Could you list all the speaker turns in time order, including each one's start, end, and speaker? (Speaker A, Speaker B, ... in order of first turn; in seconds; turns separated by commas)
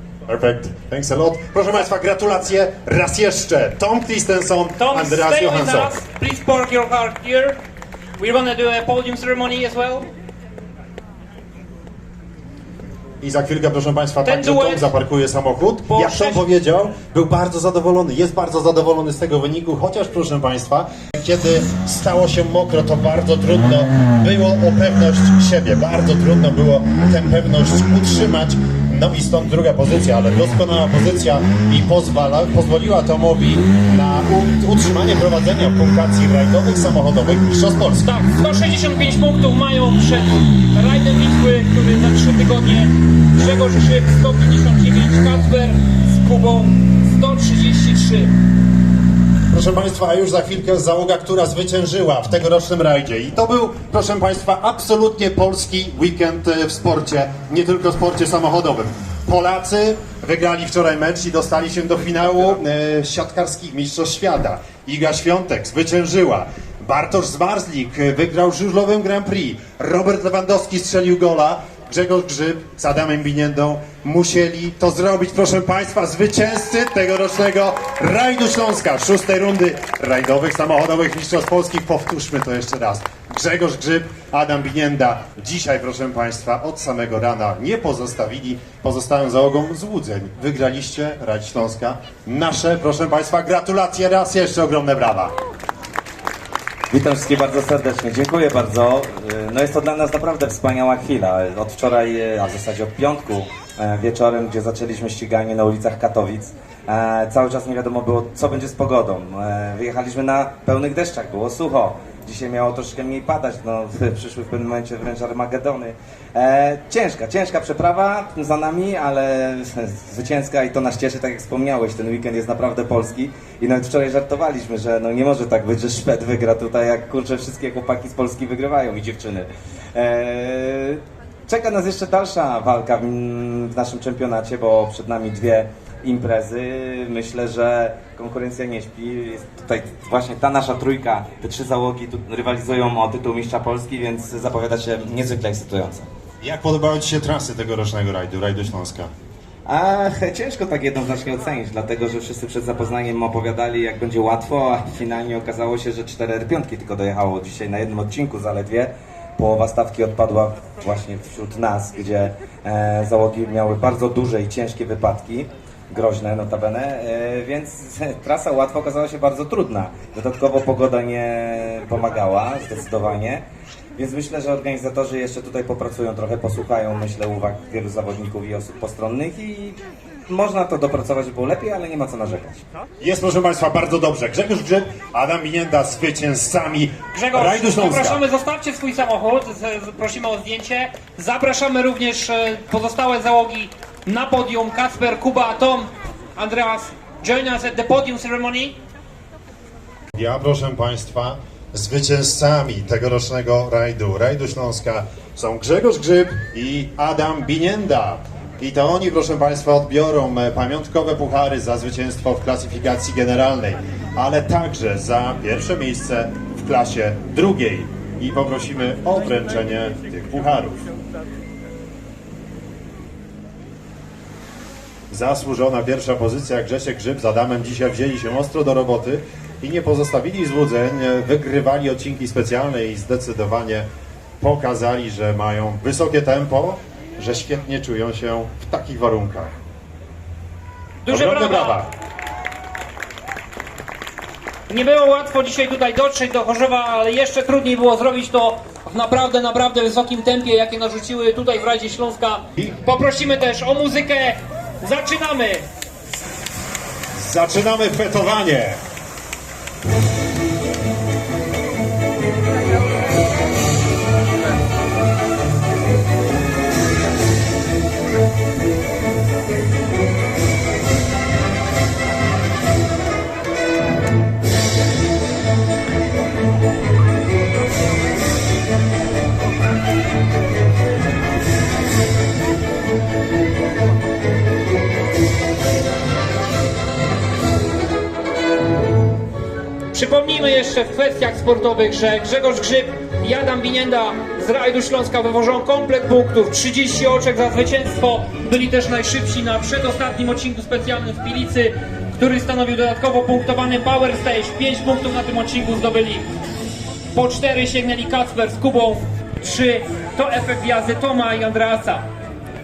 Speaker A: 0.3-6.0, Speaker B: 4.8-7.6, Speaker B: 8.2-10.1, Speaker A: 13.2-38.1, Speaker B: 14.2-14.9, Speaker B: 15.9-16.4, Speaker B: 38.0-48.3, Speaker A: 49.5-95.3, Speaker C: 96.9-146.1, Speaker A: 146.4-149.1, Speaker C: 149.7-173.4, Speaker C: 174.0-182.6, Speaker A: 183.0-188.2, Speaker B: 187.1-198.8, Speaker A: 200.1-220.8, Speaker A: 225.1-233.9, Speaker A: 234.4-239.5, Speaker B: 241.0-241.8, Speaker A: 241.1-241.9, Speaker B: 244.7-255.6, Speaker A: 257.1-258.8, Speaker B: 289.9-306.3, Speaker B: 307.1-312.0